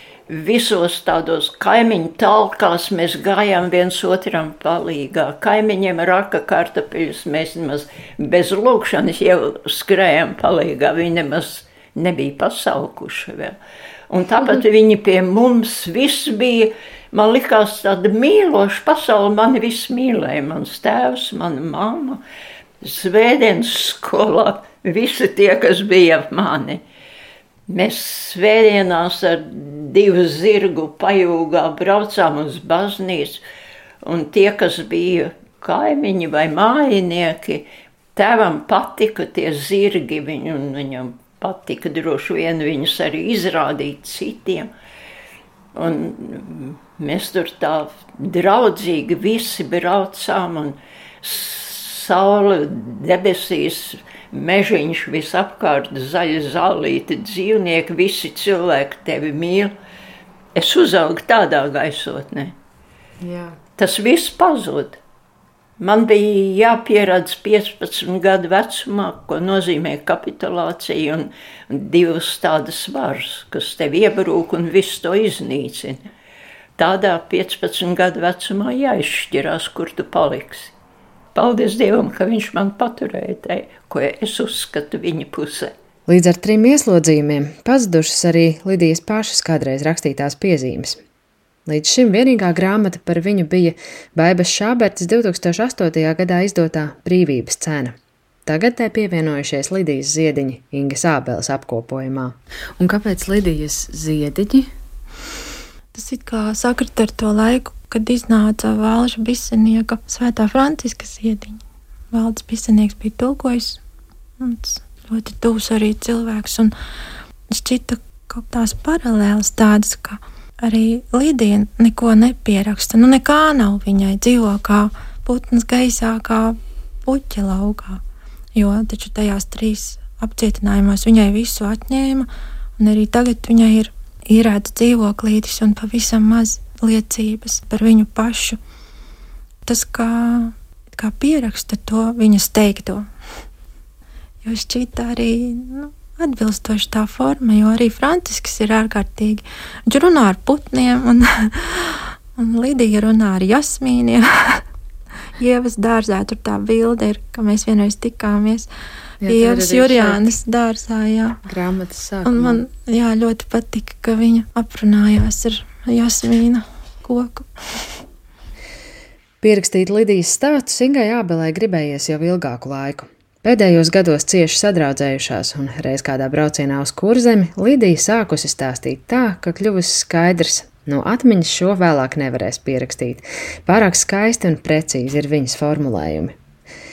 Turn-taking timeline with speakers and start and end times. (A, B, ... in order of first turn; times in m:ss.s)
0:00.3-0:13.6 A
0:14.1-0:22.2 A
0:22.8-0:26.8 A
0:27.7-0:33.4 A
0:34.0-0:44.7 A
0:45.8-0:59.7 A
1:00.6-1:02.5 A
1:03.2-1:03.6 B
1:03.8-1:05.0 A
1:05.8-1:16.1 A
1:16.8-1:20.7 A
1:21.4-1:25.7 A
1:26.1-1:31.0 B
1:31.7-1:37.9 B
1:38.5-1:44.7 B
1:45.9-1:51.6 C
1:52.1-1:53.8 C
1:54.4-1:56.7 C
1:57.5-2:08.0 C
2:08.6-2:12.3 C
2:12.8-2:18.6 C
2:19.6-2:23.0 C
2:24.4-2:34.6 C
2:35.4-2:38.7 C
2:39.2-2:40.3 B
2:39.2-2:41.4 C
2:41.5-2:42.6 B
2:42.2-2:47.9 C
2:49.4-3:06.3 B